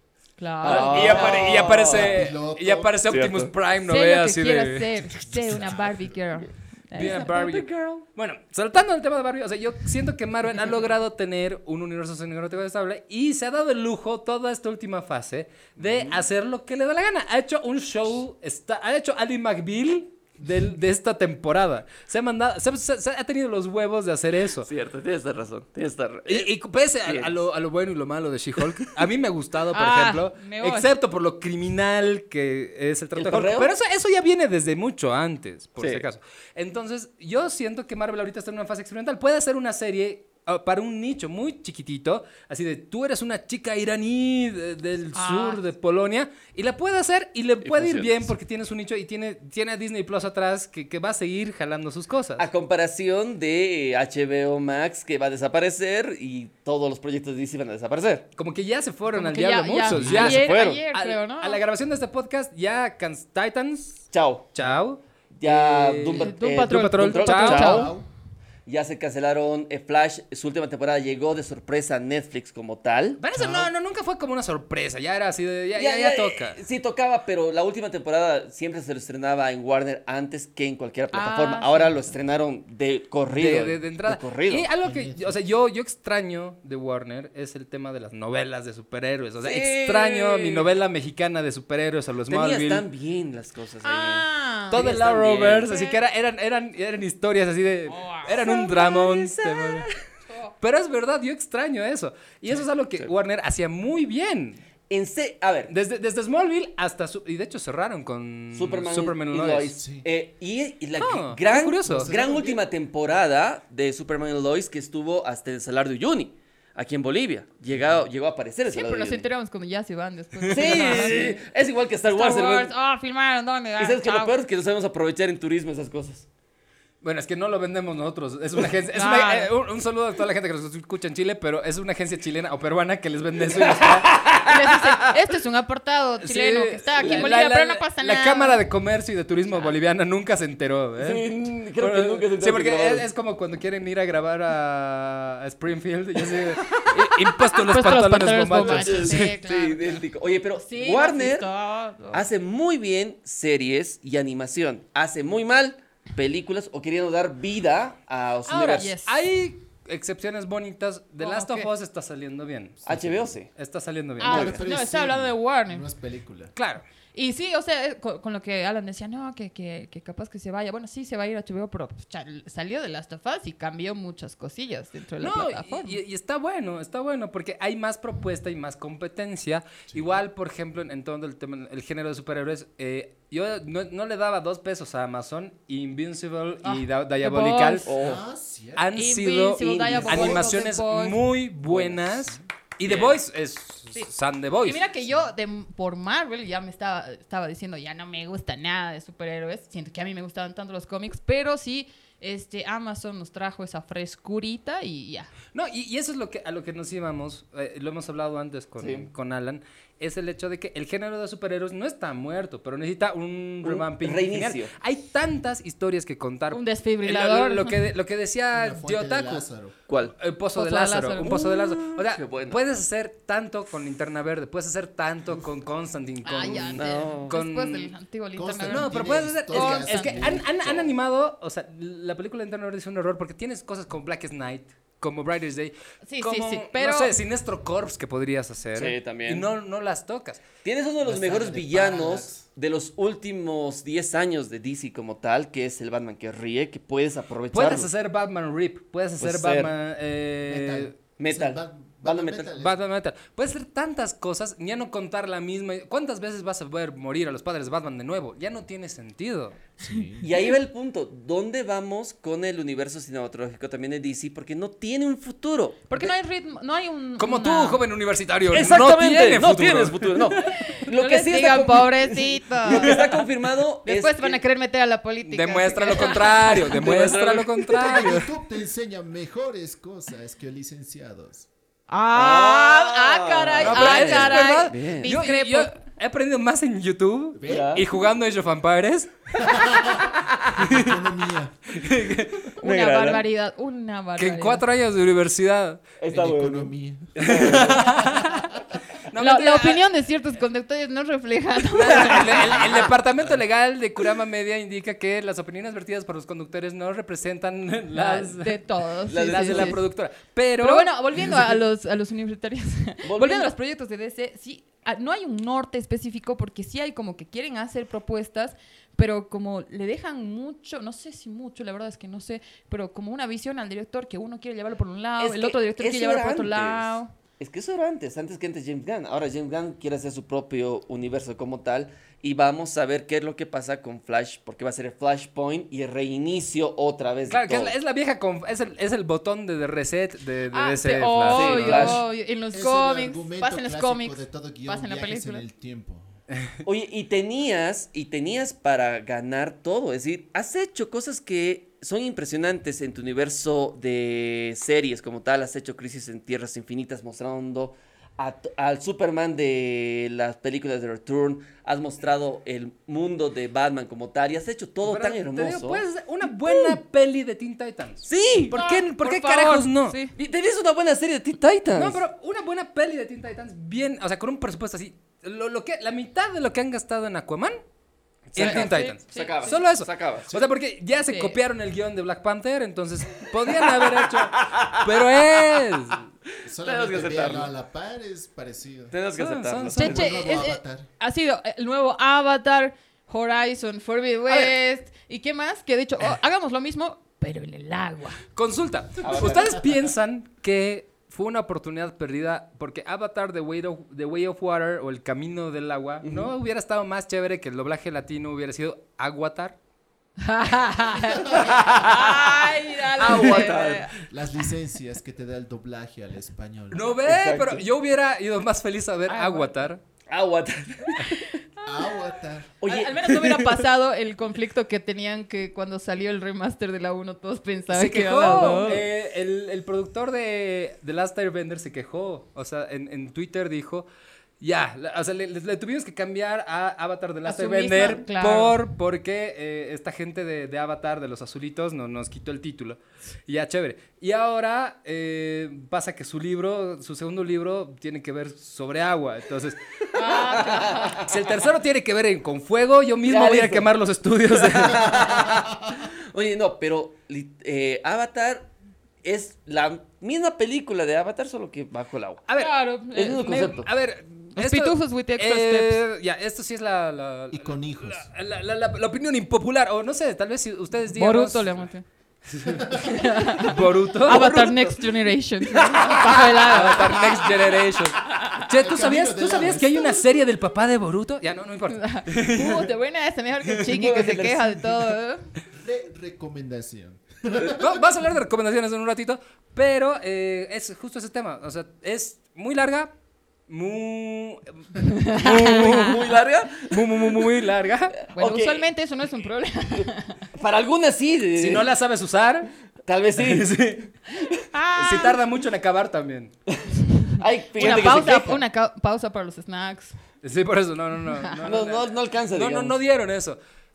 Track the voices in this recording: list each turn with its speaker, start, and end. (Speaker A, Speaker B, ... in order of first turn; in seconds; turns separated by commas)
Speaker A: 0.4-1.5, Speaker B: 0.6-2.3, Speaker C: 0.6-4.9, Speaker D: 1.1-3.0, Speaker B: 3.1-3.5, Speaker A: 3.8-8.0, Speaker D: 5.2-6.2, Speaker C: 6.9-24.7, Speaker B: 24.6-26.5, Speaker C: 26.3-52.5, Speaker B: 27.0-27.4, Speaker A: 29.7-30.9, Speaker B: 33.2-33.7, Speaker B: 35.8-36.0, Speaker A: 45.1-45.6, Speaker B: 47.6-48.3, Speaker B: 52.4-58.3, Speaker C: 58.4-67.9, Speaker A: 59.1-61.6, Speaker D: 59.9-60.2, Speaker B: 60.0-60.8, Speaker B: 64.1-64.5, Speaker B: 65.3-67.9, Speaker A: 66.2-68.0, Speaker D: 67.6-68.1, Speaker B: 68.7-73.2, Speaker C: 73.2-76.6, Speaker D: 73.3-73.7, Speaker B: 75.8-84.7, Speaker A: 81.1-82.1, Speaker C: 83.4-92.8, Speaker D: 84.8-85.4, Speaker B: 89.4-90.7, Speaker B: 92.3-95.7, Speaker A: 93.8-94.9, Speaker C: 94.7-99.9, Speaker A: 95.7-96.0, Speaker A: 97.9-99.1, Speaker B: 98.7-99.9, Speaker C: 100.6-104.6, Speaker B: 104.9-105.7, Speaker C: 105.7-109.8, Speaker B: 108.5-119.2, Speaker D: 109.8-110.1, Speaker C: 111.0-112.1, Speaker D: 111.8-112.6, Speaker D: 117.7-118.0, Speaker A: 118.7-121.4, Speaker C: 120.4-121.2, Speaker B: 120.5-122.7, Speaker A: 122.1-124.3, Speaker B: 123.8-126.3, Speaker C: 127.0-134.1, Speaker A: 128.9-129.5, Speaker B: 133.5-134.8, Speaker A: 134.4-138.6, Speaker C: 136.2-149.3, Speaker B: 137.0-137.3, Speaker B: 141.0-143.1, Speaker A: 147.2-150.0, Speaker B: 148.6-151.5, Speaker A: 150.6-152.2, Speaker B: 152.1-158.9, Speaker C: 158.5-162.9, Speaker A: 158.6-159.2, Speaker A: 161.2-161.7, Speaker B: 162.8-163.5, Speaker D: 162.9-163.3, Speaker C: 163.4-164.4, Speaker A: 164.2-165.9, Speaker D: 164.2-166.5, Speaker B: 164.3-164.6, Speaker C: 166.6-166.8, Speaker A: 167.1-176.0, Speaker C: 175.2-187.9, Speaker A: 186.6-187.9, Speaker B: 187.9-188.2, Speaker D: 188.0-188.9, Speaker C: 188.8-194.8, Speaker A: 188.9-191.2, Speaker B: 189.8-190.1, Speaker D: 189.8-190.6, Speaker B: 191.7-192.2, Speaker B: 192.8-193.2, Speaker A: 194.7-205.3, Speaker C: 205.5-219.5, Speaker B: 208.8-209.1, Speaker B: 213.6-214.7, Speaker A: 216.5-217.8, Speaker D: 218.5-219.8, Speaker B: 219.9-220.2, Speaker C: 220.1-227.9, Speaker A: 220.6-221.4, Speaker B: 221.2-222.6, Speaker A: 226.2-230.2, Speaker D: 226.4-226.8, Speaker B: 226.8-227.3, Speaker D: 228.4-230.5, Speaker C: 228.7-240.4, Speaker B: 230.6-230.9, Speaker A: 236.1-237.2, Speaker B: 238.8-239.5, Speaker B: 240.6-247.9, Speaker D: 241.0-242.4, Speaker C: 247.5-251.0, Speaker B: 249.2-249.7, Speaker D: 250.5-252.8, Speaker B: 251.2-252.5, Speaker C: 252.6-259.6, Speaker D: 259.8-260.3, Speaker B: 260.2-266.1, Speaker A: 265.9-267.8, Speaker C: 267.2-270.6, Speaker B: 268.5-274.4, Speaker A: 270.4-273.2, Speaker C: 272.7-273.1, Speaker A: 273.8-276.8, Speaker C: 275.2-278.3, Speaker B: 276.0-278.1, Speaker D: 277.8-281.5, Speaker A: 281.9-285.7, Speaker B: 282.1-285.1, Speaker C: 283.6-289.7, Speaker D: 287.4-287.9, Speaker B: 287.5-287.8, Speaker D: 289.3-291.9, Speaker C: 290.6-290.9, Speaker C: 291.7-292.5, Speaker B: 292.6-293.2, Speaker A: 292.6-294.6, Speaker C: 294.2-295.8, Speaker B: 296.0-298.2, Speaker D: 296.1-298.4, Speaker C: 297.2-299.8, Speaker A: 299.2-302.6, Speaker C: 301.7-308.6, Speaker B: 301.8-302.9, Speaker A: 307.9-309.9, Speaker B: 309.1-309.8, Speaker C: 309.2-310.9, Speaker A: 310.6-327.1, Speaker B: 313.1-313.5, Speaker B: 325.2-337.7, Speaker C: 337.3-342.0, Speaker A: 340.5-345.4, Speaker B: 341.3-342.0, Speaker D: 342.5-346.1, Speaker B: 346.6-365.8, Speaker C: 364.8-370.0, Speaker B: 366.4-366.8, Speaker B: 368.1-368.6, Speaker A: 368.5-370.1, Speaker B: 370.2-372.0, Speaker C: 371.7-377.6, Speaker B: 378.3-380.3, Speaker C: 378.3-386.1, Speaker A: 378.4-379.6, Speaker A: 381.1-381.4, Speaker B: 383.5-385.6, Speaker D: 386.4-388.9, Speaker B: 386.6-387.5, Speaker B: 388.9-390.2, Speaker C: 389.2-389.9, Speaker A: 389.8-398.2, Speaker D: 389.8-390.9, Speaker C: 398.4-409.6, Speaker B: 399.0-399.8, Speaker B: 406.0-406.3, Speaker A: 410.2-414.1, Speaker B: 411.3-414.0, Speaker D: 414.1-417.0, Speaker C: 416.7-419.8, Speaker B: 417.1-417.7, Speaker A: 419.1-419.5, Speaker B: 420.1-421.4, Speaker A: 421.6-422.1, Speaker D: 421.6-422.5, Speaker B: 422.6-423.6, Speaker A: 422.6-428.9, Speaker C: 427.7-433.9, Speaker C: 434.4-449.6, Speaker A: 437.3-438.6, Speaker A: 449.9-451.0, Speaker B: 449.9-451.2, Speaker C: 451.0-455.3, Speaker B: 453.1-453.7, Speaker B: 454.4-458.5, Speaker B: 459.0-462.2, Speaker C: 462.3-462.5, Speaker A: 462.4-463.5, Speaker B: 462.9-463.7, Speaker C: 463.1-471.6, Speaker A: 464.3-465.8, Speaker D: 467.3-468.1, Speaker A: 470.9-471.8, Speaker C: 472.3-474.5, Speaker D: 472.5-472.9, Speaker A: 472.8-477.2, Speaker B: 474.2-474.5, Speaker B: 475.5-476.2, Speaker C: 476.1-482.7, Speaker D: 478.5-480.0, Speaker A: 481.7-485.3, Speaker B: 483.6-484.9, Speaker D: 485.5-487.8, Speaker C: 487.5-492.9, Speaker C: 493.5-498.0, Speaker A: 494.9-495.9, Speaker B: 495.2-497.5, Speaker B: 498.0-498.7, Speaker A: 498.1-500.2, Speaker B: 500.4-501.7, Speaker C: 501.4-502.5, Speaker B: 502.9-503.5, Speaker C: 503.2-503.9, Speaker B: 504.1-504.4, Speaker A: 504.5-505.2, Speaker C: 504.7-506.3, Speaker B: 506.5-508.4, Speaker A: 507.6-509.9, Speaker C: 507.6-508.0, Speaker C: 510.2-513.4, Speaker B: 511.4-512.8